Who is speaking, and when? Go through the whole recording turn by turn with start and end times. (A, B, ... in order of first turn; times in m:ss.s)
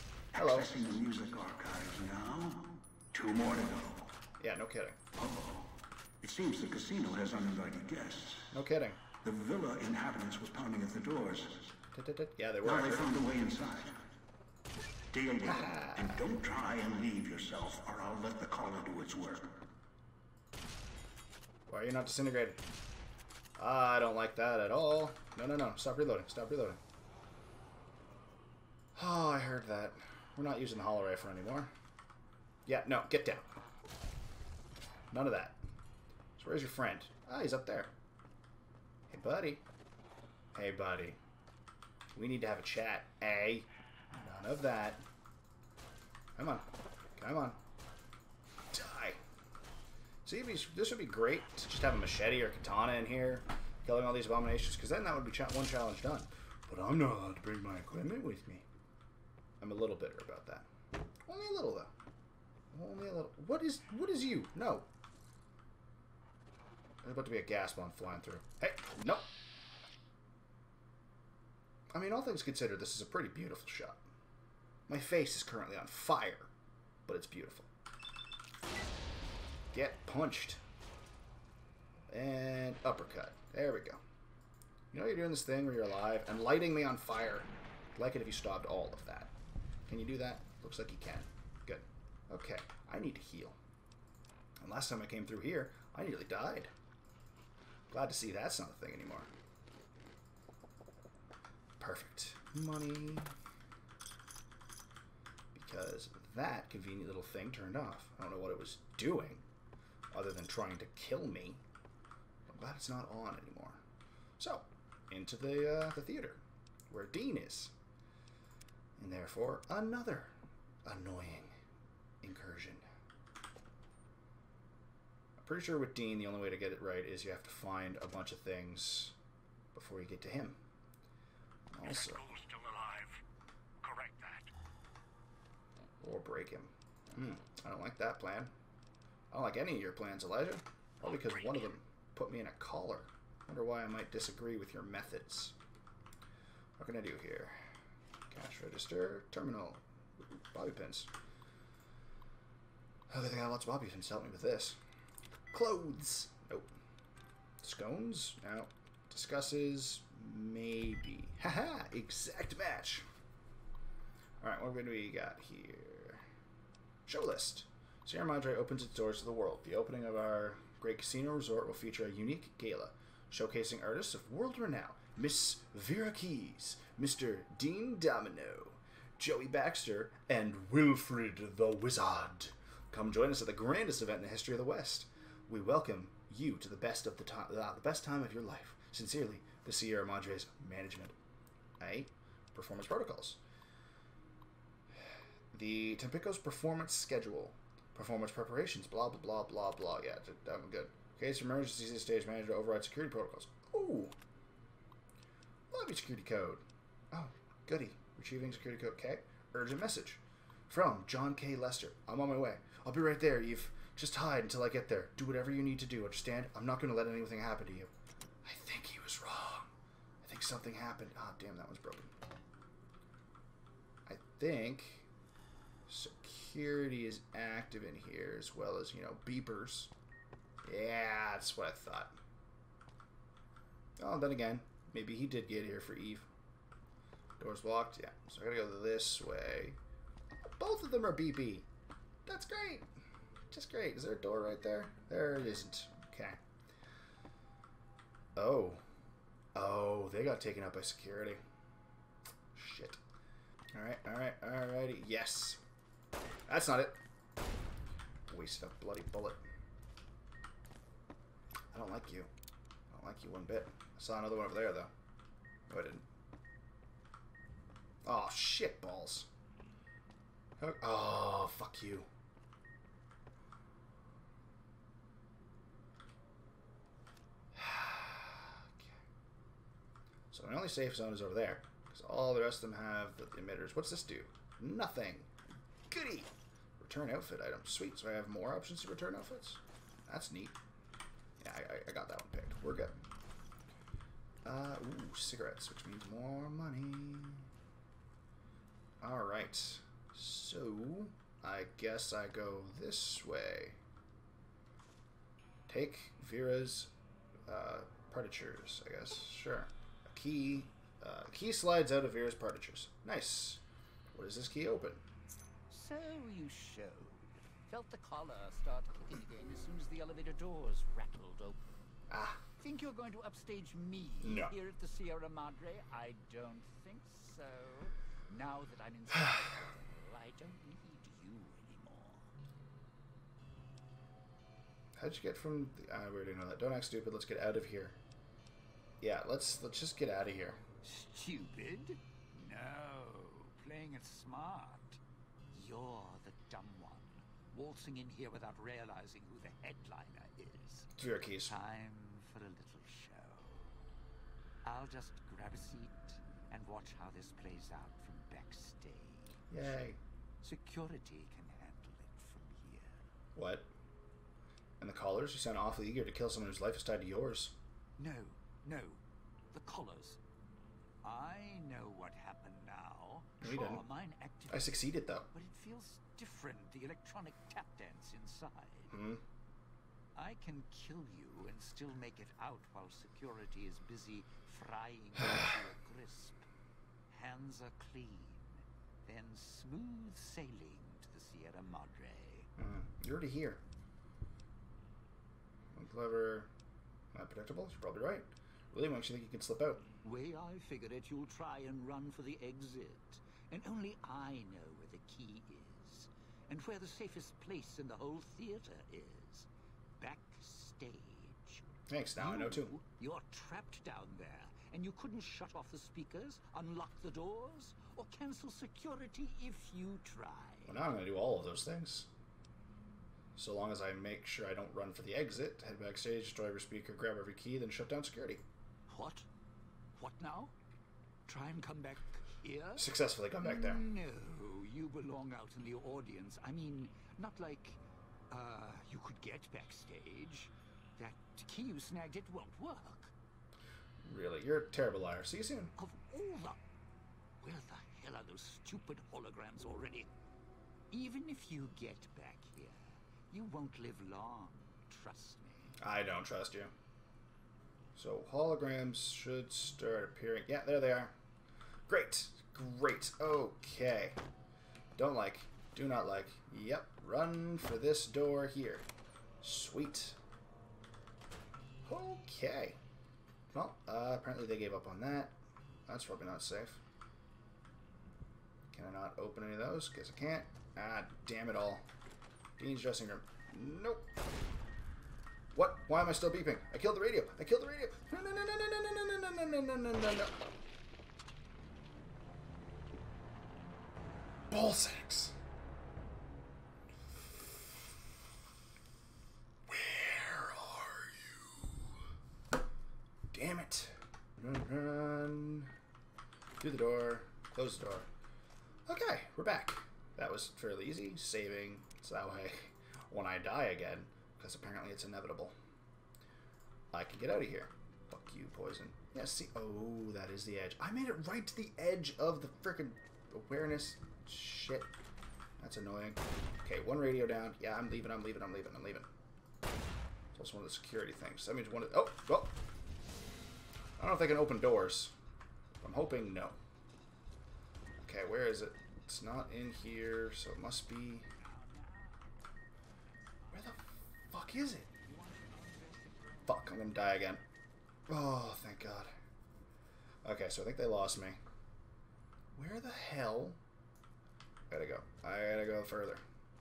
0:00.3-0:00.8 A
0:00.3-0:04.1 B
0:04.4-0:05.0 A
0:05.2-0:08.6 B
0:08.5-0:09.0 A
0:09.1-0:11.7 B
0:11.9-0:13.2 A
0:12.6-0:14.0 B
0:15.1-0:19.6 B
0:15.4-0:16.2 A
0:21.7-0:22.6 A
0:23.6-0:26.8 A
0:28.9-0:31.7 A
0:32.6-0:33.5 A
0:35.1-0:35.6 A
0:36.4-0:37.9 A
0:39.1-0:39.6 A
0:40.5-0:41.2 A
0:42.1-0:45.0 A
0:46.4-0:47.6 A
0:48.7-0:49.2 A
0:50.2-0:58.6 A
0:59.6-1:00.7 A
1:01.2-1:01.9 A
1:02.7-1:04.9 A
1:07.0-1:09.3 A
1:11.9-1:14.0 A
1:14.9-1:16.5 A
1:17.1-1:17.7 A
1:19.7-1:20.6 A
1:22.1-1:24.0 A
1:24.9-1:29.3 A
1:29.9-1:33.6 A
1:34.6-1:36.7 A
1:37.9-1:39.3 A
1:41.8-1:43.3 A
1:45.5-1:49.4 A
1:50.1-1:51.6 A
1:52.5-1:53.8 A
1:54.4-1:57.7 A
1:59.0-2:00.3 A
2:00.8-2:01.5 A
2:02.2-2:02.8 A
2:05.4-2:09.2 A
2:09.7-2:10.6 A
2:11.7-2:12.2 A
2:11.8-2:13.2 B
2:13.8-2:14.5 B
2:16.0-2:18.5 A
2:19.3-2:25.6 A
2:21.0-2:21.6 B
2:26.8-2:27.6 A
2:28.3-2:31.1 A
2:33.1-2:34.8 A
2:35.5-2:36.7 A
2:37.6-2:43.0 A
2:44.4-2:46.2 A
2:47.0-3:11.1 A
3:11.8-3:13.4 A
3:15.5-3:24.2 A
3:25.7-3:37.9 A
3:38.4-3:39.7 A
3:40.2-3:42.1 A
3:44.0-3:45.1 A
3:45.9-3:49.9 A
3:50.6-3:52.2 A
3:54.0-3:56.3 A
3:57.4-3:59.8 A
4:00.6-4:01.6 A
4:02.2-4:02.9 A
4:03.5-4:06.4 A
4:08.4-4:08.8 A
4:09.5-4:11.4 A
4:12.5-4:13.0 A
4:13.7-4:15.6 A
4:16.5-4:17.0 A
4:18.3-4:19.4 A
4:21.7-4:22.3 A
4:22.9-4:24.9 A
4:25.7-4:26.0 A
4:28.0-4:29.3 A
4:30.6-4:32.1 A
4:37.5-4:38.9 A
4:40.3-4:45.3 A
4:45.9-4:50.6 A
4:51.4-4:53.0 A
4:54.4-4:57.5 A
4:59.0-5:03.8 A
5:05.7-5:06.9 A
5:07.5-5:13.6 A
5:14.1-5:15.0 A
5:15.7-5:21.6 C
5:22.1-5:22.4 A
5:22.6-5:32.3 C
5:24.2-5:24.5 A
5:35.0-5:38.0 A
5:39.0-5:40.6 A
5:40.8-5:45.0 C
5:45.5-5:50.9 C
5:51.0-5:51.5 A
5:51.5-5:53.7 C
5:54.6-5:59.4 C
5:59.5-6:00.0 A
6:00.4-6:03.0 C
6:03.4-6:03.7 A
6:04.8-6:07.5 A
6:08.0-6:09.0 C
6:09.5-6:10.2 C
6:11.0-6:14.8 C
6:13.4-6:13.8 A
6:14.5-6:15.3 A
6:15.3-6:18.9 C
6:18.9-6:19.2 A
6:20.1-6:26.4 C
6:27.1-6:32.5 C
6:32.6-6:33.6 A
6:35.7-6:36.5 A
6:37.1-6:39.9 A
6:40.0-6:49.5 C
6:50.0-6:51.6 C
6:51.9-6:52.8 A
6:52.2-7:00.7 C
7:00.6-7:02.1 A
7:03.4-7:08.4 A
7:08.9-7:09.3 C
7:10.0-7:10.5 C
7:11.3-7:12.9 C
7:12.8-7:13.9 A
7:13.4-7:17.8 C
7:18.3-7:23.1 C
7:24.0-7:25.7 A
7:25.8-7:26.6 C
7:27.4-7:30.1 C
7:30.9-7:35.7 C
7:35.8-7:36.7 A
7:38.0-7:41.1 A
7:41.9-7:44.2 A
7:45.0-7:48.8 A
7:49.4-7:50.2 A
7:51.8-7:52.8 A
7:53.5-7:56.8 A
7:58.7-8:01.8 A
8:02.6-8:04.1 A
8:05.5-8:10.4 A
8:14.5-8:15.4 A
8:19.7-8:21.9 A
8:23.3-8:25.7 A
8:26.6-8:28.1 A
8:28.9-8:35.5 A
8:36.9-8:44.9 A
8:45.6-8:49.1 A
8:50.3-8:52.6 A
8:54.0-8:55.1 A
8:55.8-8:56.6 A
8:58.0-9:01.3 A
9:01.4-9:02.4 C
9:03.5-9:04.9 A
9:04.9-9:06.9 C
9:06.5-9:07.4 A
9:08.1-9:09.1 A
9:10.2-9:11.4 A
9:12.5-9:13.6 A
9:14.7-9:16.2 A